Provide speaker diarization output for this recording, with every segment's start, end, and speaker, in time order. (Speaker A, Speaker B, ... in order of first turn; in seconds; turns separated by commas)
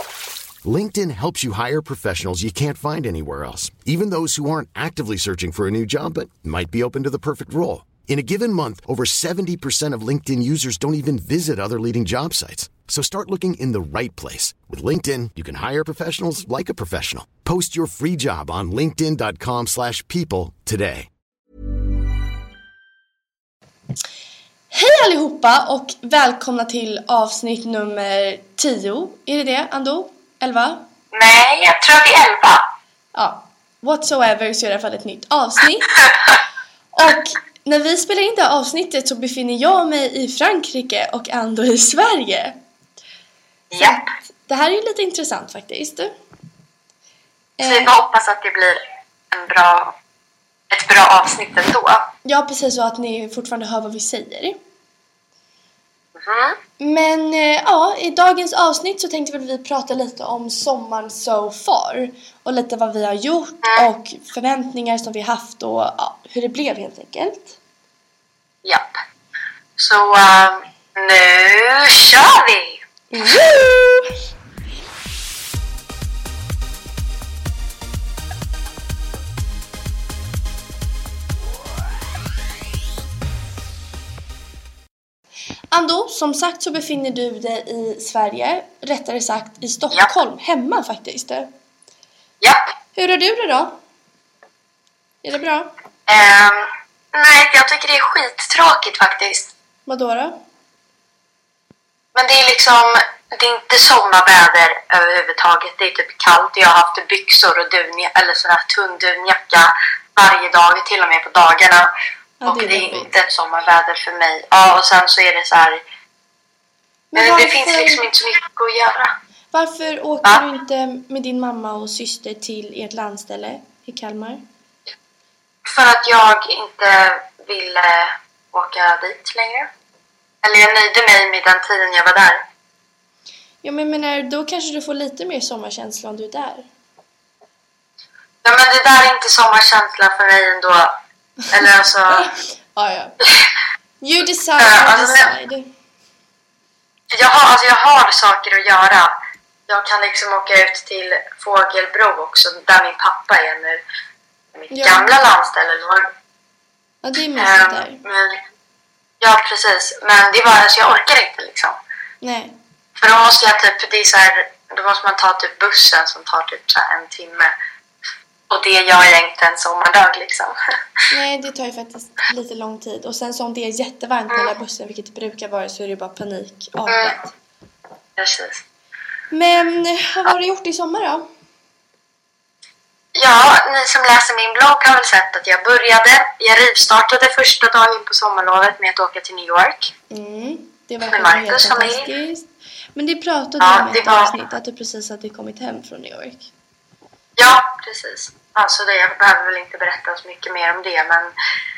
Speaker A: 0.7-21.1, Speaker B: 24.7-30.9, Speaker C: 31.1-32.6, Speaker B: 33.1-36.0, Speaker B: 36.9-42.6, Speaker C: 43.7-44.1, Speaker B: 43.8-46.1, Speaker B: 47.6-47.9, Speaker C: 47.6-48.8, Speaker C: 49.3-49.9, Speaker C: 50.7-52.1, Speaker B: 52.2-54.6, Speaker C: 56.2-56.6, Speaker B: 56.8-67.6, Speaker C: 69.8-72.8, Speaker B: 73.1-74.1, Speaker B: 85.7-91.5, Speaker B: 93.0-93.8, Speaker B: 95.2-95.7, Speaker C: 96.1-99.5, Speaker B: 99.9-100.4, Speaker C: 102.2-111.9, Speaker B: 112.4-113.1, Speaker C: 112.4-115.8, Speaker B: 117.1-118.0, Speaker C: 117.2-119.1, Speaker B: 119.5-124.4, Speaker C: 125.7-129.7, Speaker C: 130.4-132.4, Speaker B: 133.6-136.7, Speaker C: 138.4-140.9, Speaker C: 141.5-142.2, Speaker B: 142.1-143.2, Speaker B: 144.0-145.7, Speaker C: 144.6-145.3, Speaker C: 147.1-149.2, Speaker C: 149.7-153.8, Speaker C: 154.6-156.1, Speaker B: 154.7-155.2, Speaker B: 157.0-158.0, Speaker C: 157.4-158.4, Speaker C: 159.2-161.8, Speaker B: 162.2-162.6, Speaker C: 163.0-167.5, Speaker C: 168.5-170.6, Speaker B: 171.1-177.3, Speaker C: 176.9-177.1, Speaker C: 178.2-178.6, Speaker B: 179.3-181.2, Speaker C: 183.2-189.9, Speaker B: 190.1-196.5, Speaker C: 191.0-192.1, Speaker C: 193.6-194.3, Speaker C: 197.4-201.3